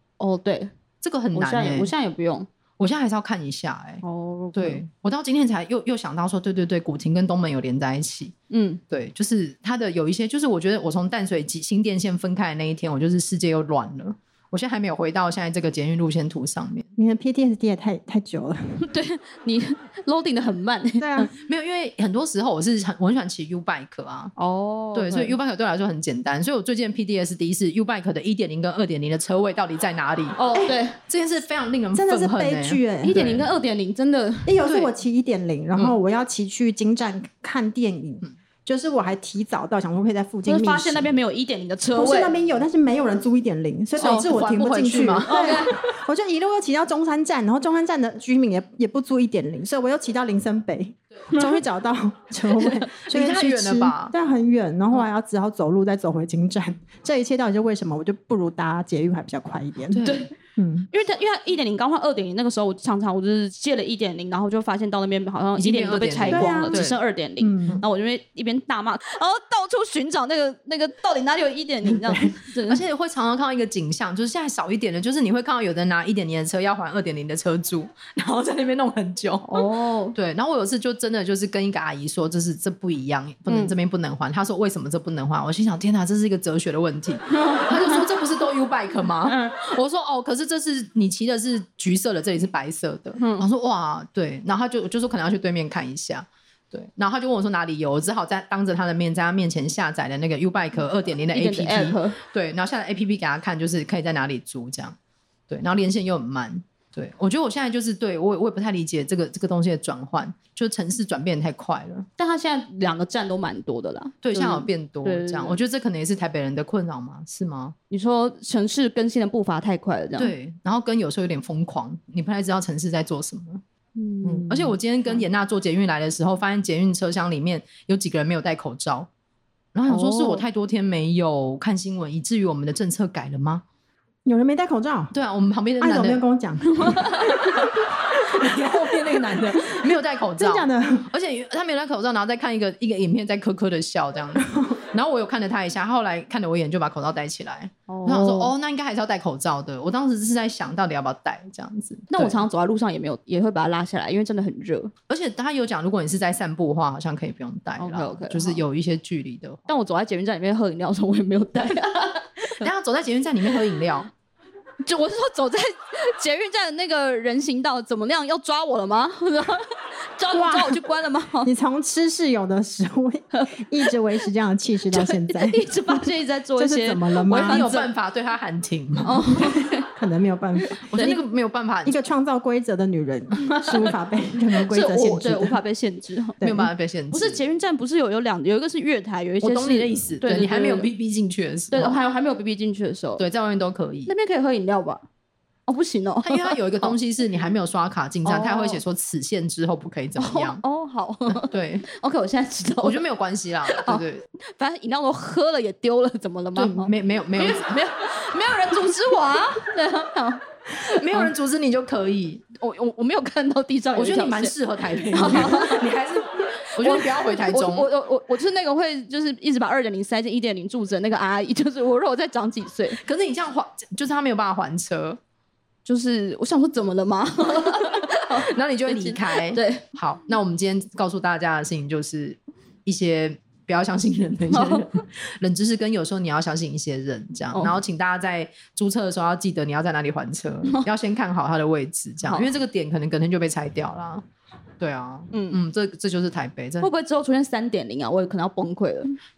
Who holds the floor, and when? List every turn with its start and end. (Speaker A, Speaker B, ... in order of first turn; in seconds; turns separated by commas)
Speaker A: 0.2-0.7, Speaker B: 1.0-1.9, Speaker A: 1.3-2.5, Speaker B: 2.8-4.0, Speaker A: 4.0-4.8, Speaker B: 4.5-8.3, Speaker A: 8.5-8.8, Speaker B: 8.9-16.9, Speaker C: 17.0-18.8, Speaker A: 18.8-21.3, Speaker C: 21.0-21.3, Speaker B: 21.4-24.3, Speaker A: 24.4-25.4, Speaker B: 24.9-33.5, Speaker A: 30.4-31.0, Speaker C: 31.9-33.1, Speaker A: 33.0-34.5, Speaker C: 34.5-41.1, Speaker B: 34.6-34.9, Speaker A: 40.5-42.4, Speaker C: 41.9-60.9, Speaker B: 44.0-45.6, Speaker A: 44.0-44.3, Speaker A: 45.2-45.8, Speaker B: 53.0-54.1, Speaker B: 59.9-60.3, Speaker A: 60.0-60.3, Speaker A: 60.9-72.8, Speaker B: 65.6-67.0, Speaker C: 66.3-66.8, Speaker C: 67.4-67.8, Speaker B: 72.7-105.0, Speaker A: 79.5-80.2, Speaker A: 83.5-83.7, Speaker A: 87.3-88.0, Speaker A: 89.3-89.6, Speaker A: 93.2-93.4, Speaker A: 101.3-102.2, Speaker B: 105.5-112.1, Speaker A: 112.2-115.6, Speaker B: 114.2-117.7, Speaker A: 117.9-120.3, Speaker B: 120.2-123.6, Speaker A: 124.0-124.7, Speaker B: 124.2-129.1, Speaker B: 129.7-133.6, Speaker A: 129.9-130.4, Speaker C: 134.2-135.1, Speaker B: 135.1-136.2, Speaker C: 135.8-137.1, Speaker A: 136.7-137.6, Speaker B: 138.1-152.4, Speaker C: 140.4-141.1, Speaker A: 147.9-148.5, Speaker A: 152.1-154.9, Speaker B: 155.1-159.6, Speaker A: 157.8-158.6, Speaker A: 159.7-162.6, Speaker B: 162.6-164.1, Speaker A: 164.8-171.5, Speaker C: 170.3-170.8, Speaker C: 171.4-177.7, Speaker A: 174.9-177.9, Speaker B: 177.4-179.3, Speaker A: 179.0-179.9, Speaker C: 179.4-181.2, Speaker B: 180.9-181.9, Speaker C: 181.8-185.6, Speaker A: 183.4-183.9, Speaker A: 184.7-186.4, Speaker C: 186.4-186.7, Speaker B: 186.4-187.4, Speaker A: 187.1-190.9, Speaker B: 189.4-192.0, Speaker A: 191.7-193.2, Speaker B: 193.2-194.1, Speaker A: 194.1-195.0, Speaker A: 195.7-196.9, Speaker B: 196.2-200.6, Speaker A: 198.2-198.8, Speaker A: 200.2-203.0, Speaker B: 201.3-201.8, Speaker B: 202.8-204.2, Speaker A: 203.7-210.8, Speaker B: 206.5-207.8, Speaker B: 210.7-212.4, Speaker A: 212.5-214.5, Speaker B: 213.9-217.9, Speaker A: 215.1-215.9, Speaker A: 216.8-223.0, Speaker B: 223.0-225.2, Speaker A: 225.8-229.8, Speaker B: 227.6-244.2, Speaker A: 234.5-235.0, Speaker A: 242.2-242.5, Speaker B: 244.8-246.9, Speaker A: 245.3-245.6, Speaker A: 246.8-249.2